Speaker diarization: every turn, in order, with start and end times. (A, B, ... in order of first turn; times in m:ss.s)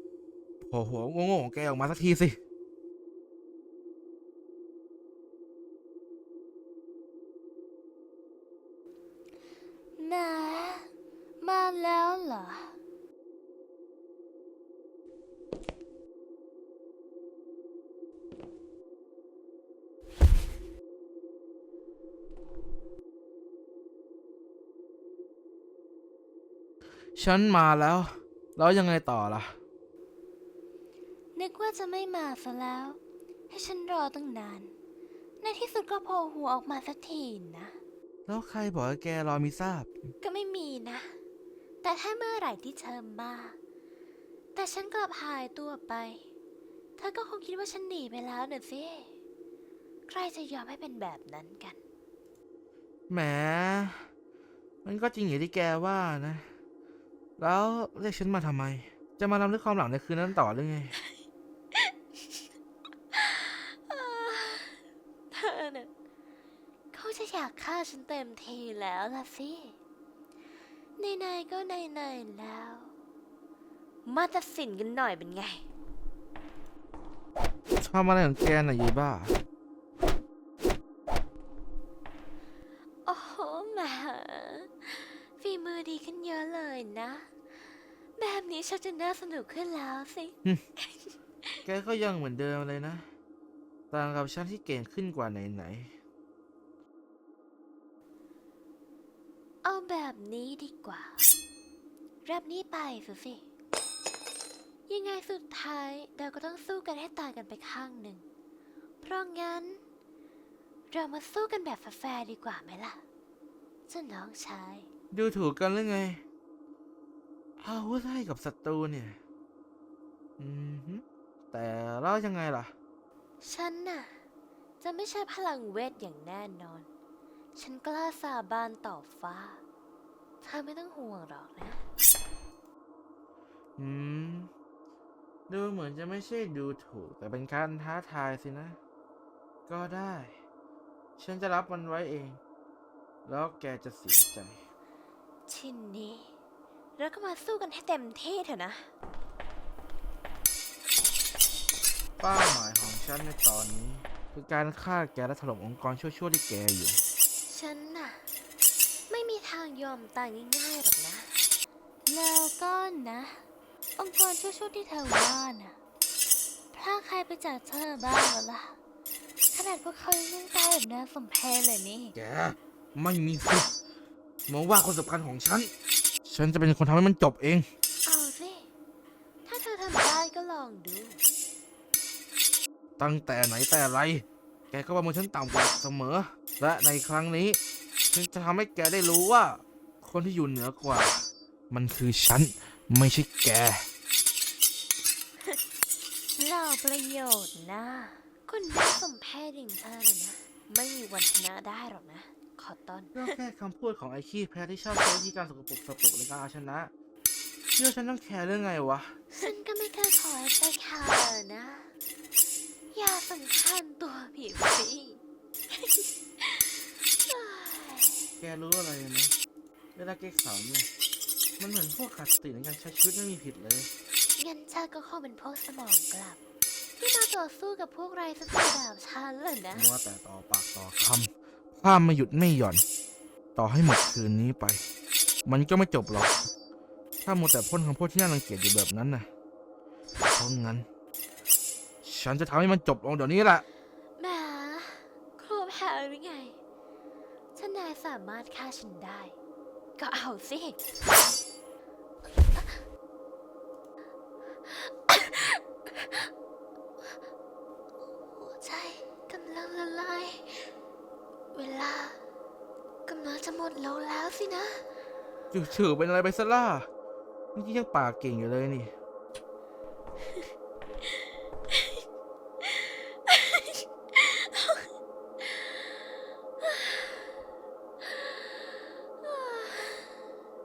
0:00.6-0:02.4 A
0:10.0-0:10.9 B
0:11.4-0:12.8 B
0:27.2-0:29.6 A
0:31.4-0:33.0 B
0:33.5-0:34.7 B
0:35.4-0:37.8 B
0:38.3-0:39.9 A
0:40.2-0:41.2 B
0:41.8-0:43.6 B
0:44.6-0:46.2 B
0:47.0-0:49.1 B
0:50.1-0:51.8 B
0:53.1-0:54.1 A
0:54.8-0:56.5 A
0:57.4-1:01.0 A
1:03.1-1:04.8 B
1:05.3-1:05.9 B
1:06.9-1:09.8 B
1:11.0-1:12.9 B
1:14.0-1:15.6 B
1:17.8-1:19.4 A
1:23.1-1:27.3 B
1:28.2-1:31.5 B
1:31.6-1:33.1 A
1:33.9-1:35.9 A
1:39.6-1:41.2 B
1:42.2-1:43.4 B
1:44.9-1:48.2 B
1:49.0-1:49.8 B
1:50.9-1:53.0 B
1:53.9-1:54.9 B
1:55.1-1:56.2 A
1:57.6-1:59.2 A
2:00.4-2:02.7 A
2:03.4-2:04.2 B
2:04.8-2:06.9 B
2:07.6-2:09.6 B
2:10.4-2:11.8 B
2:13.8-2:14.5 A
2:15.5-2:18.8 A
2:19.7-2:20.4 A
2:21.2-2:22.4 A
2:23.2-2:24.6 A
2:25.5-2:26.3 B
2:27.0-2:28.9 B
2:32.2-2:37.0 A
2:37.5-2:38.2 B
2:39.1-2:41.3 B
2:42.1-2:43.4 B
2:44.0-2:45.8 B
2:46.7-2:48.8 B
2:49.5-2:52.2 B
2:52.2-2:53.7 A
2:54.5-2:55.7 A
2:56.2-2:57.7 A
2:58.0-2:58.7 B
2:59.5-3:01.2 B
3:03.0-3:07.6 A
3:08.1-3:13.9 A
3:16.4-3:23.4 B
3:23.1-3:26.9 A
3:27.8-3:29.2 A
3:29.3-3:31.9 B
3:32.9-3:35.2 B
3:35.7-3:38.3 B
3:38.4-3:39.3 A
3:40.0-3:40.9 A
3:41.6-3:43.9 A
3:44.4-3:46.4 B
3:47.0-3:49.9 B
3:49.7-3:52.8 A
3:53.6-3:54.8 A
3:55.4-3:56.5 A
3:57.2-3:59.3 A
4:00.3-4:00.9 A
4:02.0-4:03.6 A
4:04.2-4:06.6 B
4:07.6-4:09.4 B
4:10.0-4:10.8 B
4:14.7-4:16.3 B
4:18.4-4:20.7 B
4:21.5-4:22.2 B
4:23.1-4:24.8 B
4:25.5-4:26.9 A
4:27.6-4:28.9 A
4:32.6-4:34.9 B
4:39.2-4:40.0 B